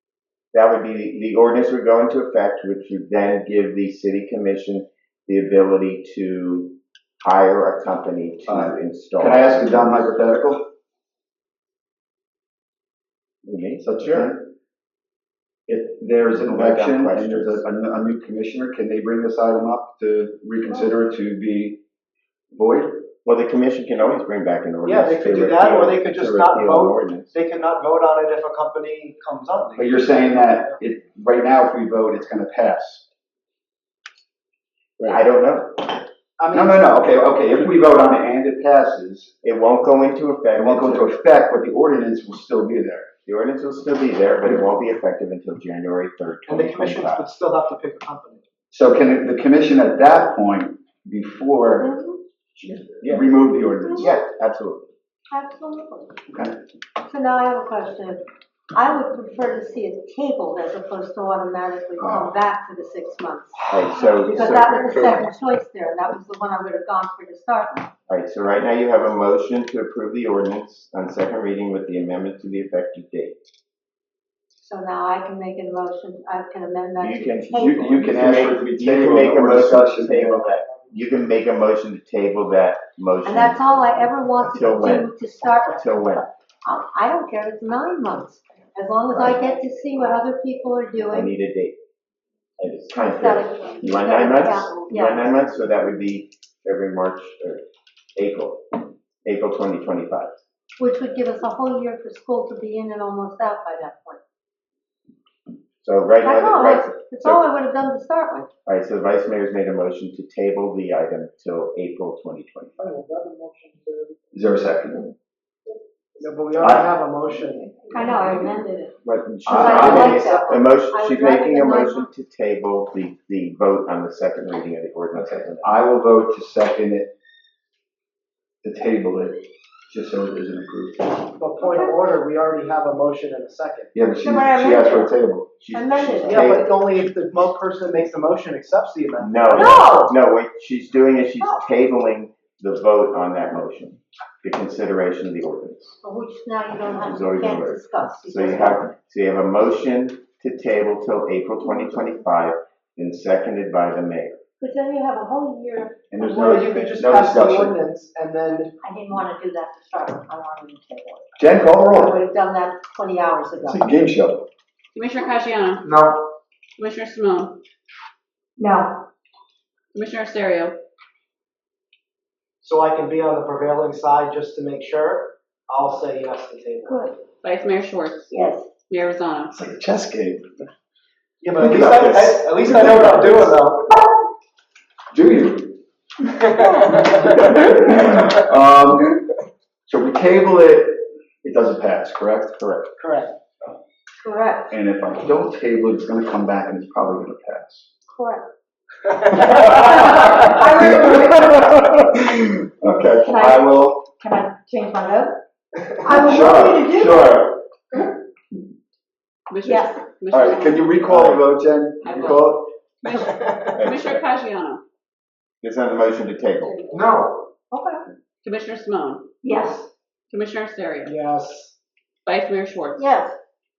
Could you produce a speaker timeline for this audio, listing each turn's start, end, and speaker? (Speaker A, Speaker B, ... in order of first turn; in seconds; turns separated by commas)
Speaker A: 0.5-10.1, Speaker B: 8.5-10.6, Speaker A: 13.4-14.3, Speaker B: 13.8-14.4, Speaker B: 15.7-21.8, Speaker A: 16.4-17.6, Speaker B: 22.5-23.1, Speaker A: 23.2-27.3, Speaker C: 24.8-30.7, Speaker B: 29.8-33.0, Speaker A: 35.0-36.0, Speaker C: 36.4-36.9, Speaker B: 36.5-39.3, Speaker A: 39.4-41.1, Speaker B: 40.5-43.1, Speaker A: 43.2-47.2, Speaker C: 46.5-48.4, Speaker B: 48.7-51.9, Speaker D: 51.8-52.2, Speaker A: 52.9-53.2, Speaker B: 53.0-54.1, Speaker A: 54.0-54.9, Speaker D: 55.3-56.2, Speaker B: 56.3-56.6, Speaker D: 57.0-67.9, Speaker B: 62.0-62.3, Speaker A: 63.7-65.2, Speaker A: 68.1-73.4, Speaker D: 74.6-77.9, Speaker A: 77.0-83.6, Speaker B: 77.5-80.4, Speaker D: 83.2-91.3, Speaker A: 84.4-85.1, Speaker A: 85.7-86.3, Speaker A: 89.1-89.4, Speaker A: 91.1-91.8, Speaker A: 92.6-97.6, Speaker D: 92.9-95.4, Speaker A: 98.2-100.4, Speaker D: 100.8-104.2, Speaker A: 105.8-107.4, Speaker D: 106.2-108.5, Speaker A: 108.7-112.8, Speaker C: 112.8-114.1, Speaker B: 114.3-115.1, Speaker C: 116.2-117.8, Speaker D: 117.9-118.9, Speaker A: 119.0-125.7, Speaker B: 119.5-120.2, Speaker D: 119.5-122.1, Speaker C: 119.8-120.5, Speaker B: 125.1-127.1, Speaker B: 128.6-131.3, Speaker C: 131.4-133.9, Speaker D: 131.6-131.9, Speaker B: 133.9-135.5, Speaker D: 134.2-135.1, Speaker A: 135.6-136.7, Speaker D: 135.7-136.6, Speaker C: 136.2-139.7, Speaker A: 139.2-145.9, Speaker D: 139.5-140.1, Speaker D: 141.4-141.7, Speaker D: 146.0-148.9, Speaker A: 146.9-154.4, Speaker D: 154.6-156.7, Speaker B: 156.1-157.7, Speaker C: 156.2-158.7, Speaker D: 158.8-163.9, Speaker B: 161.4-162.2, Speaker B: 163.6-164.5, Speaker E: 164.9-165.9, Speaker C: 165.8-166.2, Speaker E: 166.8-167.6, Speaker D: 168.6-169.0, Speaker E: 169.9-170.8, Speaker C: 172.6-177.1, Speaker D: 176.8-177.1, Speaker E: 177.4-178.3, Speaker D: 178.3-178.7, Speaker E: 178.9-179.5, Speaker B: 179.5-180.5, Speaker C: 181.4-183.8, Speaker B: 181.6-183.5, Speaker B: 185.1-185.8, Speaker D: 186.5-187.1, Speaker B: 187.1-189.2, Speaker B: 189.9-192.6, Speaker A: 192.6-192.9, Speaker C: 193.0-193.4, Speaker D: 194.2-194.7, Speaker B: 194.7-197.9, Speaker D: 198.1-198.5, Speaker D: 199.3-201.9, Speaker B: 199.4-204.1, Speaker D: 203.2-203.6, Speaker D: 204.2-205.4, Speaker D: 206.0-207.4, Speaker B: 206.1-207.6, Speaker E: 209.5-211.0, Speaker D: 209.6-210.0, Speaker B: 210.3-212.7, Speaker A: 211.1-211.4, Speaker E: 212.0-214.8, Speaker A: 213.7-214.2, Speaker A: 215.6-216.8, Speaker D: 216.6-217.1, Speaker C: 216.9-217.4, Speaker D: 217.7-218.0, Speaker E: 218.4-219.2, Speaker D: 219.4-219.8, Speaker E: 220.3-221.1, Speaker C: 221.1-221.8, Speaker E: 222.2-223.0, Speaker D: 223.0-223.3